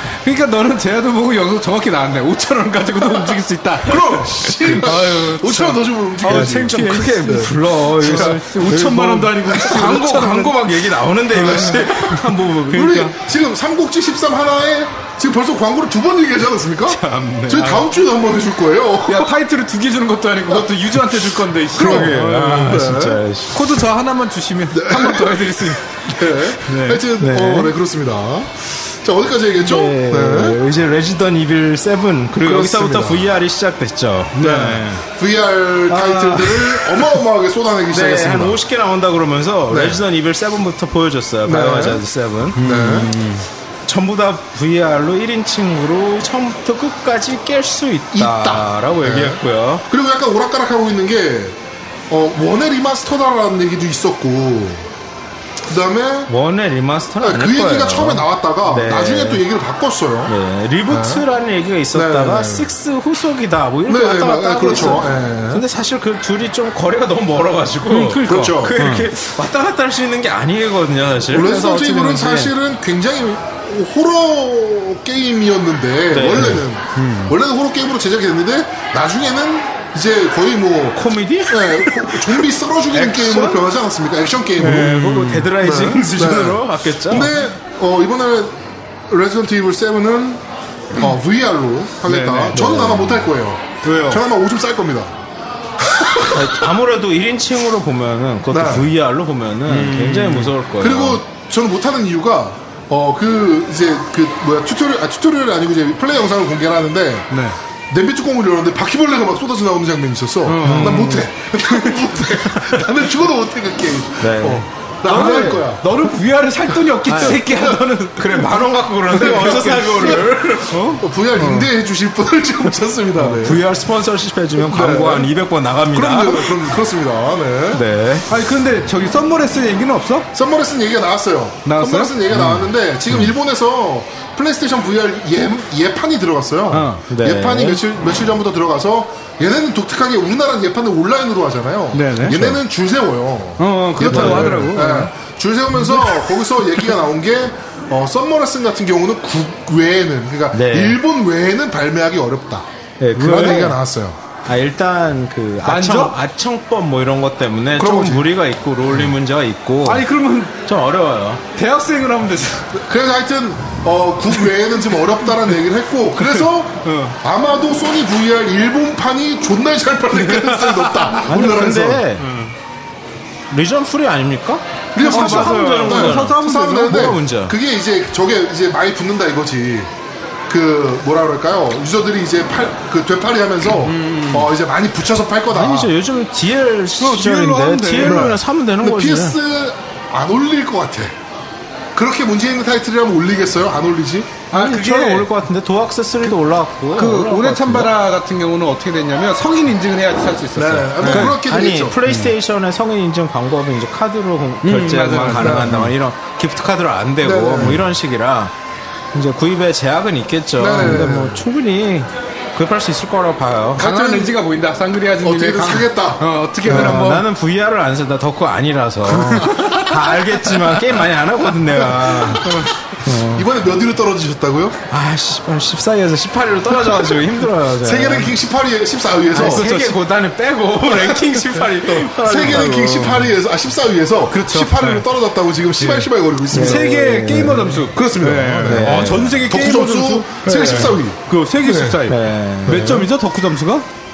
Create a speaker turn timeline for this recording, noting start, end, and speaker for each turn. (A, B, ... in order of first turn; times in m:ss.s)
0:00.2-0:10.6 A
0:03.8-0:08.4 B
0:04.6-0:05.0 C
0:06.2-0:13.1 C
0:09.5-0:10.0 B
0:11.3-0:13.1 A
0:11.4-0:11.8 B
0:12.7-0:19.3 B
0:16.9-0:17.9 A
0:19.0-0:22.9 A
0:21.7-0:23.2 B
0:21.7-0:23.6 C
0:23.5-0:27.0 A
0:24.7-0:25.4 B
0:26.1-0:30.6 B
0:27.2-0:27.7 C
0:29.6-0:34.6 C
0:32.4-0:33.3 B
0:34.3-0:35.0 A
0:34.4-0:38.6 B
0:35.9-0:37.2 C
0:37.9-0:42.8 C
0:39.7-0:40.0 B
0:41.4-0:42.0 B
0:42.6-0:43.4 A
0:42.6-0:43.1 B
0:43.8-0:49.8 C
0:48.1-0:51.6 B
0:52.1-0:54.9 B
0:55.7-0:56.3 B
0:56.3-0:59.4 C
0:57.2-1:00.3 B
1:00.3-1:12.5 C
1:00.9-1:01.2 B
1:01.9-1:02.7 B
1:03.9-1:05.6 B
1:07.9-1:09.1 A
1:08.2-1:08.8 B
1:11.3-1:28.6 B
1:16.1-1:16.6 C
1:16.4-1:17.3 A
1:20.9-1:22.3 C
1:22.9-1:23.7 C
1:24.6-1:25.5 A
1:24.6-1:27.3 C
1:29.1-1:30.4 B
1:30.9-1:35.1 B
1:32.0-1:32.6 A
1:32.5-1:33.3 C
1:33.8-1:34.2 A
1:35.8-1:36.6 B
1:36.3-1:41.2 C
1:38.5-1:38.9 B
1:39.7-1:40.5 A
1:40.8-1:47.3 B
1:47.3-1:47.6 A
1:47.9-1:55.9 B
1:50.4-1:52.7 A
1:50.6-1:51.1 C
1:54.2-1:55.4 C
1:55.1-2:01.0 A
1:57.0-1:57.4 C
1:57.4-1:57.8 B
1:58.2-2:00.8 C
1:59.1-2:00.3 B
2:01.0-2:03.6 B
2:01.4-2:01.6 C
2:03.2-2:06.8 C
2:04.6-2:05.3 B
2:05.9-2:07.8 B
2:07.7-2:08.3 C
2:08.3-2:10.3 A
2:10.3-2:34.2 B
2:11.6-2:12.2 A
2:16.7-2:17.0 A
2:17.1-2:17.8 C
2:21.9-2:22.6 A
2:23.6-2:25.1 A
2:24.0-2:24.9 C
2:25.8-2:26.3 A
2:30.5-2:31.0 C
2:33.0-2:33.8 C
2:33.2-2:33.7 A
2:34.5-2:40.0 C
2:35.6-2:36.2 A
2:37.8-2:38.2 B
2:39.8-2:40.6 A
2:40.6-2:41.4 C
2:41.5-2:42.7 A
2:42.7-2:52.1 B
2:45.1-2:45.5 A
2:46.2-2:47.2 A
2:50.1-2:51.6 A
2:51.2-2:52.3 C
2:52.2-2:52.5 A
2:53.5-2:57.5 C
2:54.9-2:59.9 B
2:55.0-2:57.0 A
3:00.5-3:05.9 B
3:03.8-3:04.5 A
3:05.5-3:09.4 C
3:07.0-3:08.3 A
3:08.0-3:11.1 B
3:11.9-3:14.3 B
3:14.5-3:15.3 A
3:14.5-3:17.9 C
3:16.9-3:21.3 A
3:20.5-3:22.0 B
3:21.0-3:28.5 C
3:22.0-3:22.3 A
3:24.6-3:25.9 A
3:25.4-3:25.9 B
3:27.2-3:27.8 B
3:29.1-3:33.8 C
3:30.6-3:31.4 B
3:30.8-3:31.0 A
3:33.8-3:34.4 B
3:33.8-3:37.2 A
3:35.2-3:37.1 B
3:36.6-3:43.5 C
3:39.1-3:40.8 A
3:41.8-3:44.8 B
3:42.3-3:42.7 A
3:44.9-3:48.4 C
3:47.8-3:49.7 B
3:49.3-3:53.3 C
3:49.4-3:50.0 A
3:51.9-3:57.0 B
3:54.3-3:55.0 A
3:55.8-4:03.8 A
3:56.5-3:57.8 C
3:57.8-4:02.0 B
3:58.6-3:59.4 C
4:00.5-4:00.9 C
4:02.1-4:03.1 C
4:02.7-4:03.0 B